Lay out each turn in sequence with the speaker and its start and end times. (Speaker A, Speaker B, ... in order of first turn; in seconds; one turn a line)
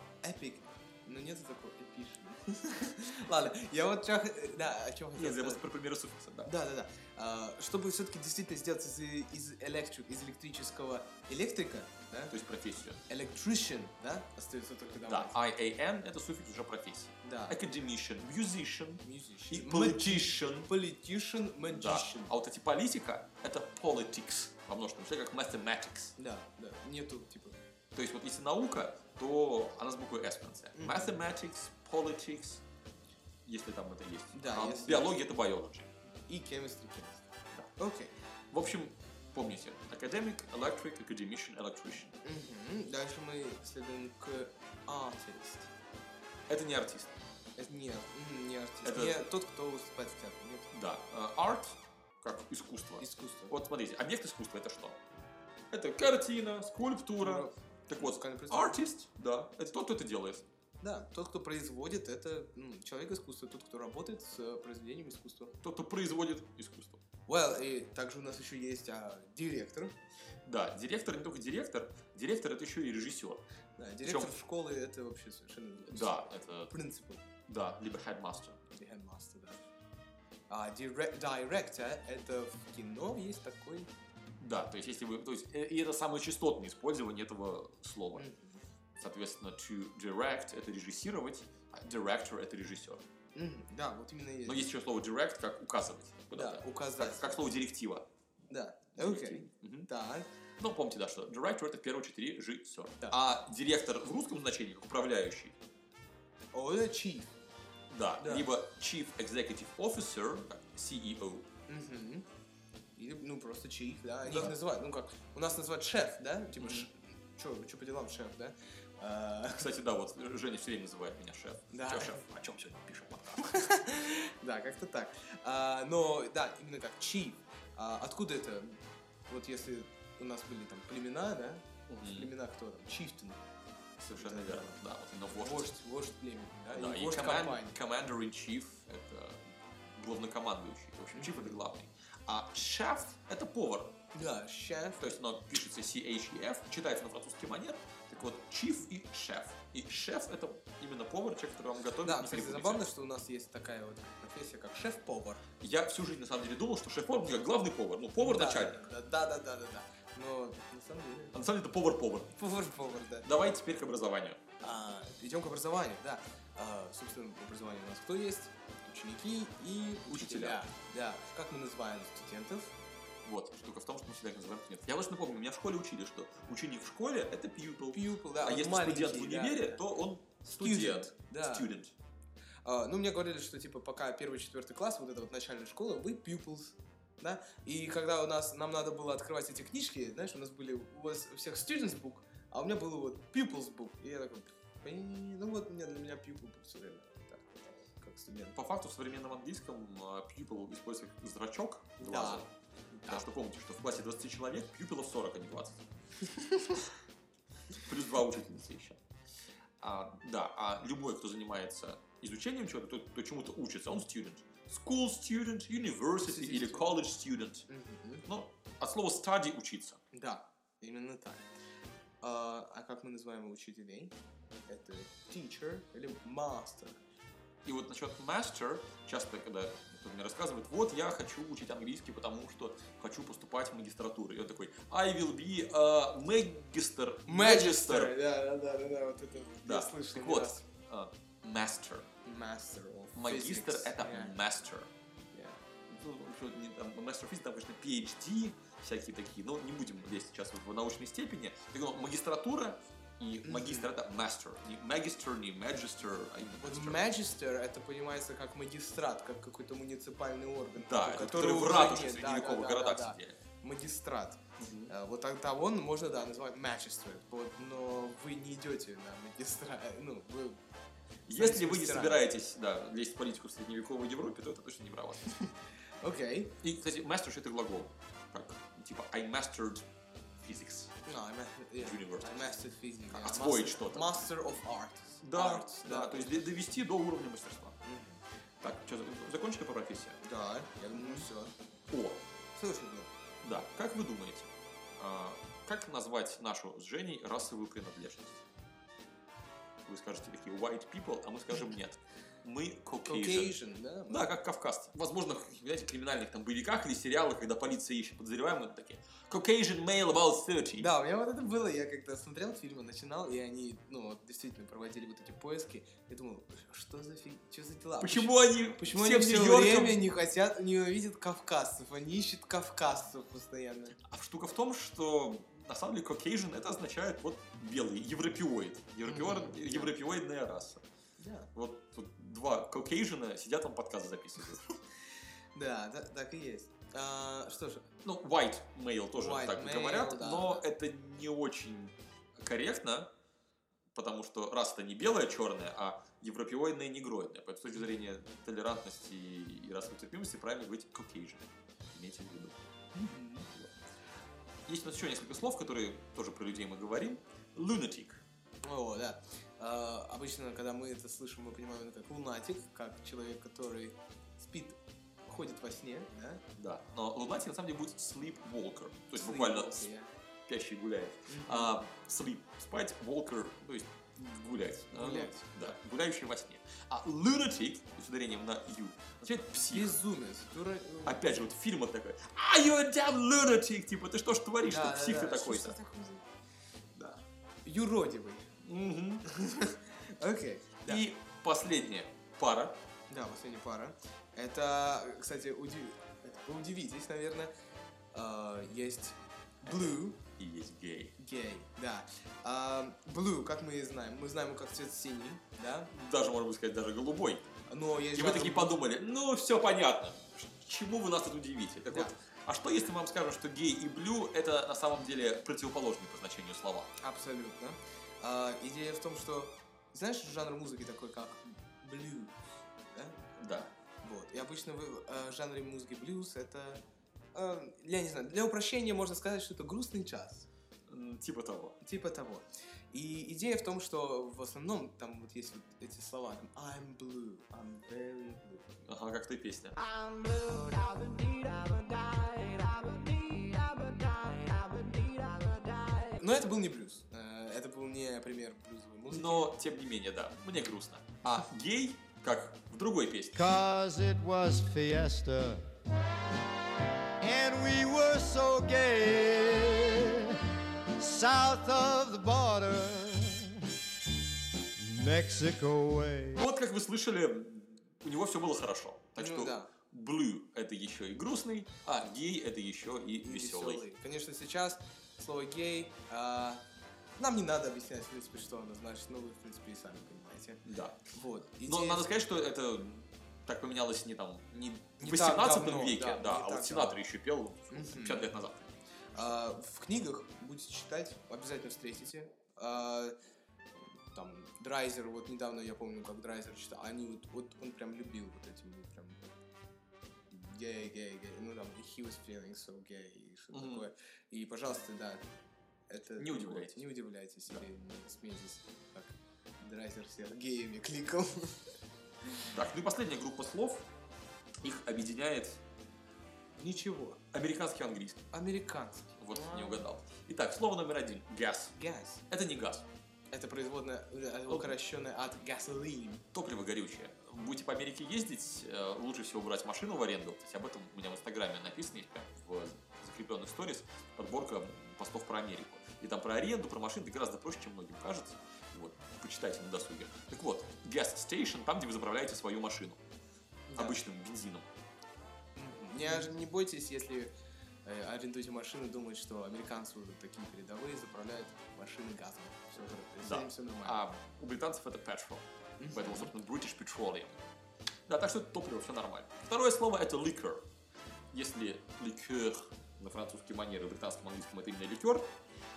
Speaker A: 0.2-5.6
Speaker B: 5.2-6.5
Speaker A: 6.4-12.3
Speaker B: 12.3-13.0
Speaker A: 13.1-15.3
Speaker B: 15.1-20.7
Speaker A: 17.2-17.6
Speaker A: 19.0-22.3
Speaker B: 21.6-26.1
Speaker A: 26.1-27.6
Speaker B: 27.9-32.6
Speaker A: 30.7-31.2
Speaker B: 33.4-35.9
Speaker A: 34.3-35.2
Speaker A: 36.3-38.1
Speaker B: 38.5-42.1
Speaker A: 42.2-45.7
Speaker B: 46.5-47.1
Speaker A: 47.6-50.7
Speaker B: 48.8-49.2
Speaker B: 50.7-55.0
Speaker A: 53.0-53.5
Speaker B: 55.7-60.4
Speaker A: 57.2-58.8
Speaker A: 60.8-65.5
Speaker B: 65.6-67.0
Speaker A: 67.3-69.9
Speaker B: 70.4-73.4
Speaker A: 73.8-77.2
Speaker B: 74.0-74.3
Speaker B: 75.9-76.7
Speaker B: 77.5-78.6
Speaker A: 78.7-79.6
Speaker A: 80.5-83.9
Speaker B: 84.4-88.2
Speaker A: 88.1-88.6
Speaker B: 89.0-93.0
Speaker A: 93.3-94.7
Speaker B: 94.5-98.0
Speaker A: 96.3-97.5
Speaker A: 98.5-100.3
Speaker B: 99.0-99.9
Speaker B: 100.6-105.5
Speaker A: 106.5-107.3
Speaker B: 107.9-111.5
Speaker A: 108.2-108.5
Speaker A: 111.7-112.2
Speaker A: 113.0-119.7
Speaker B: 114.2-114.5
Speaker B: 116.6-116.8
Speaker B: 119.6-123.7
Speaker A: 121.7-122.2
Speaker A: 123.4-133.4
Speaker B: 131.9-132.3
Speaker B: 134.0-135.7
Speaker A: 134.2-134.8
Speaker A: 135.3-137.8
Speaker B: 136.7-144.0
Speaker A: 141.1-141.6
Speaker A: 144.1-145.2
Speaker B: 145.0-152.8
Speaker A: 152.0-155.4
Speaker B: 155.6-158.9
Speaker A: 158.2-161.3
Speaker B: 161.3-162.3
Speaker A: 162.3-163.3
Speaker B: 163.2-164.4
Speaker A: 164.6-172.8
Speaker B: 170.1-170.6
Speaker B: 173.2-181.9
Speaker A: 177.9-179.9
Speaker A: 180.6-181.7
Speaker A: 182.6-198.6
Speaker B: 198.5-202.5
Speaker A: 202.0-203.3
Speaker B: 203.1-205.8
Speaker A: 206.4-206.7
Speaker B: 207.8-209.0
Speaker B: 209.8-217.7
Speaker A: 216.2-216.9
Speaker A: 217.7-218.2
Speaker B: 218.2-220.0
Speaker A: 220.1-221.5
Speaker A: 222.2-224.1
Speaker A: 224.7-227.0
Speaker B: 227.6-238.2
Speaker A: 237.2-240.6
Speaker B: 239.6-242.1
Speaker A: 242.2-244.3
Speaker B: 243.1-244.9
Speaker A: 245.3-245.6
Speaker B: 245.9-257.1
Speaker A: 253.4-253.9
Speaker A: 256.6-270.6
Speaker B: 260.7-263.4
Speaker B: 264.6-264.9
Speaker B: 271.3-275.3
Speaker A: 271.3-272.3
Speaker A: 275.3-276.6
Speaker B: 276.6-279.9
Speaker B: 280.4-281.0
Speaker A: 281.1-286.7
Speaker B: 281.8-282.5
Speaker B: 283.1-284.3
Speaker B: 285.2-287.8
Speaker A: 287.8-288.2
Speaker B: 288.6-290.2
Speaker A: 290.2-291.5
Speaker B: 290.9-291.3
Speaker B: 291.9-292.2
Speaker A: 292.5-293.1
Speaker B: 293.4-298.4
Speaker B: 299.9-303.6
Speaker A: 303.1-304.3
Speaker B: 304.1-310.9
Speaker A: 310.8-324.0
Speaker B: 318.0-320.0
Speaker B: 324.0-330.8
Speaker A: 329.1-329.9
Speaker A: 331.2-331.5
Speaker B: 331.5-334.8
Speaker A: 335.5-337.9
Speaker B: 338.0-343.1
Speaker A: 339.1-340.6
Speaker B: 343.9-353.7
Speaker A: 353.0-353.5
Speaker B: 354.7-358.2
Speaker A: 358.6-366.4
Speaker B: 366.6-369.9
Speaker A: 369.2-370.1
Speaker B: 370.5-379.9
Speaker A: 371.3-371.7
Speaker A: 374.9-375.7
Speaker A: 379.7-381.4
Speaker B: 381.0-385.8
Speaker A: 384.6-386.2
Speaker A: 386.9-388.5
Speaker B: 388.6-389.3
Speaker A: 389.3-391.0
Speaker B: 390.9-392.8
Speaker A: 393.1-397.5
Speaker A: 398.1-400.2
Speaker B: 400.4-401.1
Speaker A: 401.2-405.9
Speaker B: 405.9-416.9
Speaker A: 407.7-408.8
Speaker A: 417.0-422.4
Speaker A: 422.9-426.8
Speaker B: 423.4-423.7
Speaker A: 427.3-430.5
Speaker B: 430.9-431.8
Speaker A: 431.8-438.7
Speaker B: 438.8-439.8
Speaker C: 439.9-446.0
Speaker A: 446.0-449.5
Speaker B: 449.1-453.5
Speaker D: 453.3-455.6
Speaker D: 457.2-460.4
Speaker D: 460.9-463.5
Speaker D: 464.8-466.4
Speaker B: 466.3-473.9
Speaker A: 469.2-469.7
Speaker A: 473.2-476.6
Speaker A: 477.2-480.6
Speaker B: 480.6-481.0
Speaker A: 481.1-482.1
Speaker B: 481.6-489.4
Speaker A: 485.0-487.0
Speaker A: 487.7-488.3
Speaker A: 489.1-493.2
Speaker A: 493.9-499.3
Speaker A: 500.3-505.3
Speaker B: 503.5-503.9
Speaker A: 505.9-511.7
Speaker B: 506.2-506.8
Speaker B: 512.5-513.9
Speaker B: 514.6-515.6
Speaker A: 516.6-517.2
Speaker B: 517.3-518.3
Speaker A: 518.3-519.9
Speaker B: 519.2-521.8
Speaker A: 521.8-522.2
Speaker B: 522.3-522.9
Speaker A: 523.3-526.2
Speaker B: 526.3-543.0
Speaker A: 543.7-544.0
Speaker B: 543.8-544.7
Speaker A: 545.5-547.3
Speaker A: 547.8-554.0
Speaker B: 553.2-557.4
Speaker A: 555.8-556.3
Speaker B: 558.1-560.6
Speaker B: 561.3-565.3